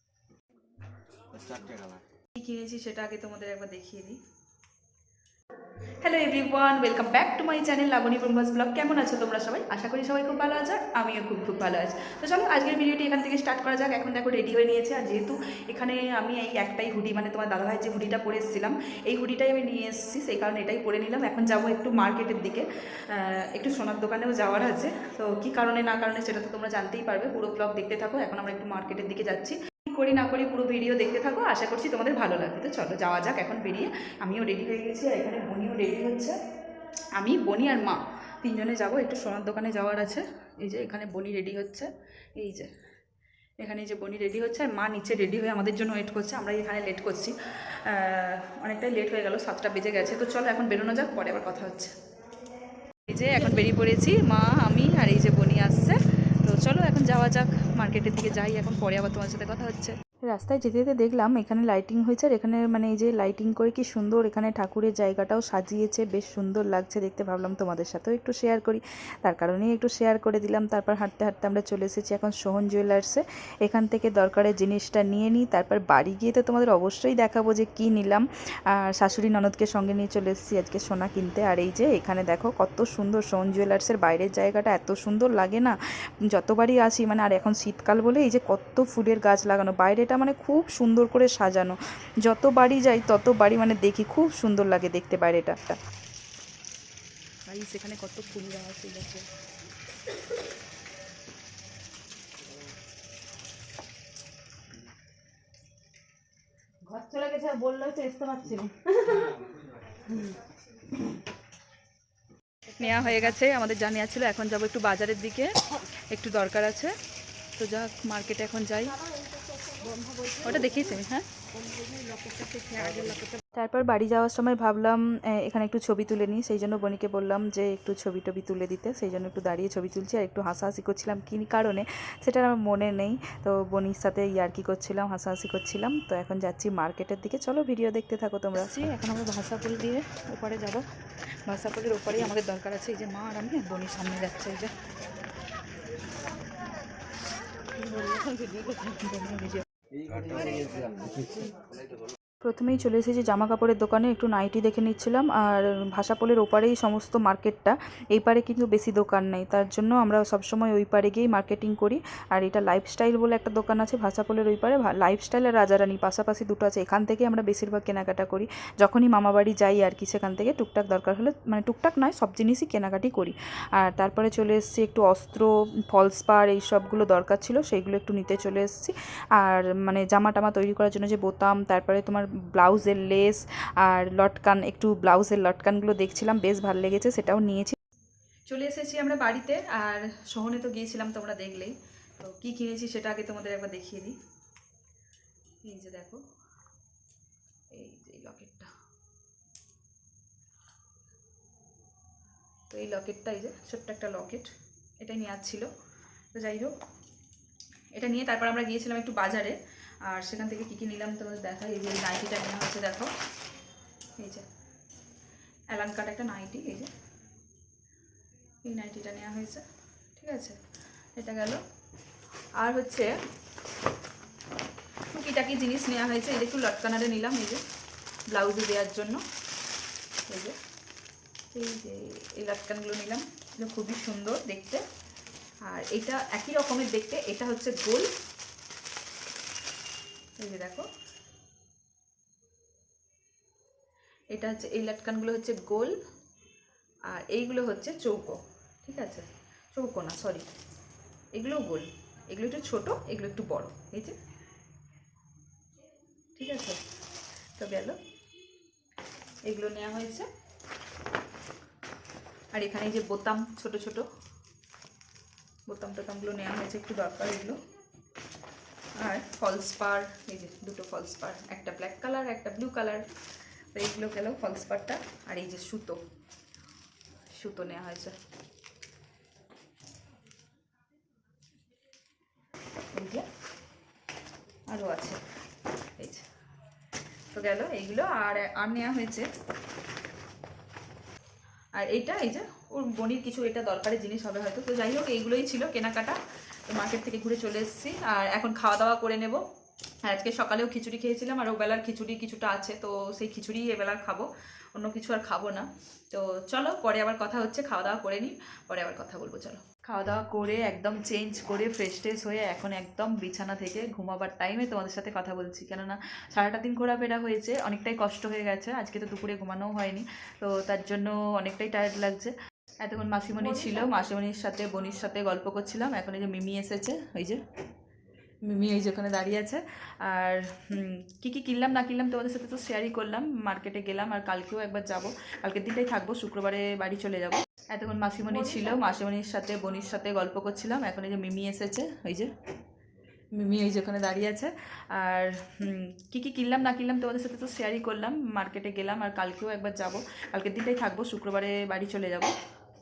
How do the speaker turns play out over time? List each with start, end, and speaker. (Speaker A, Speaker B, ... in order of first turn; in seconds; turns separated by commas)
Speaker A: 1.3-2.0, Speaker B: 2.4-4.2, Speaker B: 6.0-36.4, Speaker B: 37.2-42.7, Speaker B: 43.6-51.9, Speaker B: 53.1-85.8, Speaker B: 86.3-95.8, Speaker B: 97.5-99.3, Speaker C: 106.9-109.4, Speaker C: 110.1-110.4, Speaker C: 112.8-113.3, Speaker B: 112.8-117.0, Speaker B: 117.6-119.0, Speaker C: 119.1-121.0, Speaker B: 120.4-121.3, Speaker C: 121.5-123.4, Speaker B: 123.5-140.8, Speaker B: 141.5-144.7, Speaker C: 147.8-149.1, Speaker B: 149.0-149.7, Speaker A: 149.9-151.4, Speaker C: 150.3-151.7, Speaker B: 152.4-187.8, Speaker B: 188.5-194.2, Speaker B: 195.7-196.2, Speaker B: 197.7-198.7, Speaker B: 202.7-204.5, Speaker B: 205.0-205.7, Speaker B: 206.3-206.7, Speaker B: 207.9-213.1, Speaker B: 214.2-214.4, Speaker B: 215.7-216.9, Speaker B: 218.6-219.6, Speaker B: 220.2-220.6, Speaker B: 221.2-221.6, Speaker B: 222.6-223.1, Speaker B: 225.1-227.6, Speaker B: 228.3-229.2, Speaker B: 230.3-230.6, Speaker B: 231.5-234.8, Speaker B: 235.7-238.1, Speaker B: 240.4-240.9, Speaker B: 244.3-245.9, Speaker B: 247.1-250.5, Speaker B: 251.3-254.2, Speaker B: 256.4-256.8, Speaker B: 257.6-258.0, Speaker B: 259.5-260.3, Speaker B: 262.5-264.1, Speaker B: 265.7-267.6, Speaker B: 269.0-273.1, Speaker B: 273.7-276.0, Speaker B: 277.3-278.2, Speaker B: 282.9-283.2, Speaker B: 284.7-285.2, Speaker B: 286.0-286.3, Speaker B: 287.3-289.3, Speaker B: 291.8-299.4, Speaker B: 300.1-327.4, Speaker B: 328.5-342.3, Speaker B: 343.4-352.3